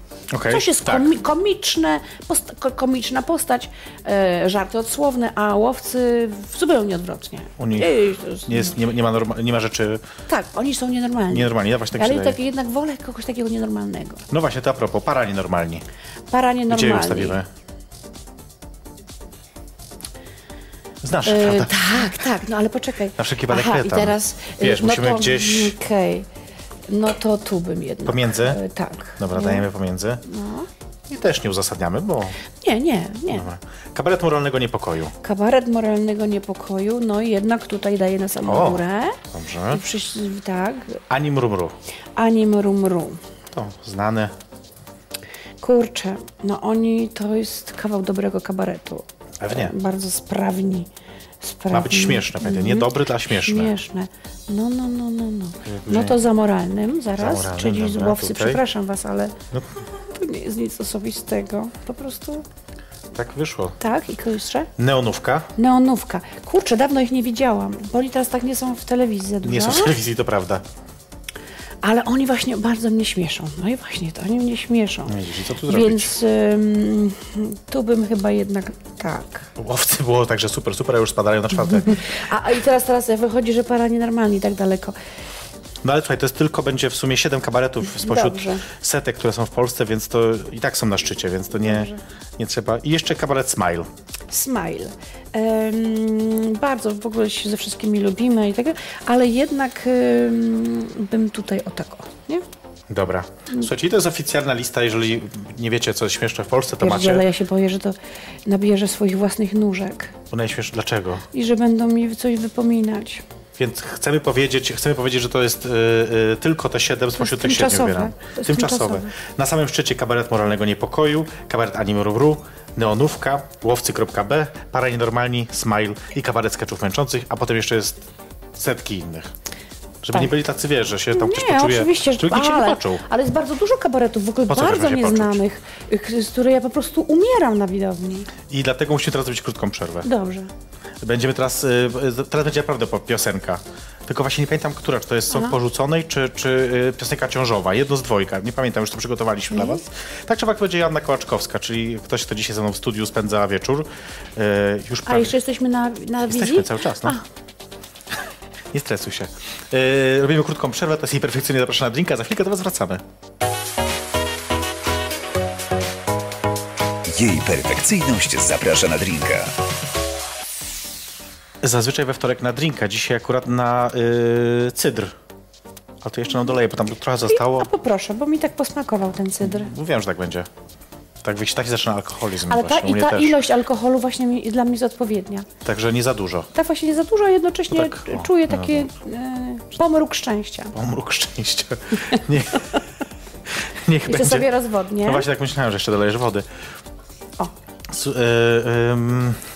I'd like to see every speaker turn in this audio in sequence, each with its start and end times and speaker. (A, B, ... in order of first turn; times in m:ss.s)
0:00.3-0:01.1 A
0:00.4-0:08.7 B
0:07.6-0:10.0 A
0:10.3-0:14.3 B
0:11.3-0:12.4 A
0:14.3-0:15.8 A
0:16.3-0:17.4 B
0:16.7-0:17.5 A
0:21.0-0:22.1 A
0:21.2-0:26.3 B
0:23.2-0:25.7 A
0:26.9-0:29.7 B
0:28.1-0:28.6 A
0:29.2-0:30.2 A
0:30.2-0:30.7 B
0:31.1-0:32.4 A
0:32.6-0:33.5 B
0:33.3-0:35.1 A
0:35.2-0:41.0 B
0:38.4-0:39.8 A
0:41.1-0:41.7 A
0:42.2-0:43.2 B
0:43.5-0:44.3 A
0:45.6-0:50.9 B
0:49.4-0:49.7 A
0:51.4-0:59.4 B
0:51.7-0:53.7 A
0:55.6-0:56.2 A
0:57.2-0:58.6 A
1:00.0-1:02.4 B
1:03.1-1:03.8 A
1:03.8-1:04.7 B
1:04.8-1:05.5 A
1:05.6-1:10.0 B
1:09.4-1:10.6 A
1:11.8-1:19.5 B
1:15.1-1:16.1 A
1:19.6-1:22.1 A
1:21.9-1:25.0 B
1:25.8-1:33.9 A
1:28.0-1:28.7 B
1:31.7-1:32.0 B
1:34.3-1:42.4 B
1:42.9-1:47.2 A
1:46.8-1:50.1 B
1:50.3-1:51.3 A
1:51.3-1:53.2 B
1:53.6-2:09.3 A
1:57.2-1:59.1 B
2:10.0-2:13.0 A
2:11.1-2:18.3 B
2:14.5-2:15.4 A
2:18.5-2:20.1 A
2:20.0-2:20.5 B
2:21.0-2:35.3 A
2:35.1-2:37.2 B
2:36.3-2:37.2 A
2:38.7-2:43.0 A
2:47.1-2:49.5 C
2:51.6-2:55.2 A
2:56.0-2:57.7 A
2:57.3-2:59.7 B
2:59.4-3:00.5 A
3:01.2-3:03.4 A
3:02.4-3:05.5 B
3:05.6-3:06.5 A
3:06.5-3:10.7 B
3:07.7-3:08.9 A
3:10.7-3:12.8 A
3:13.5-3:14.5 A
3:14.0-3:15.3 B
3:15.0-3:16.4 A
3:17.9-3:19.4 A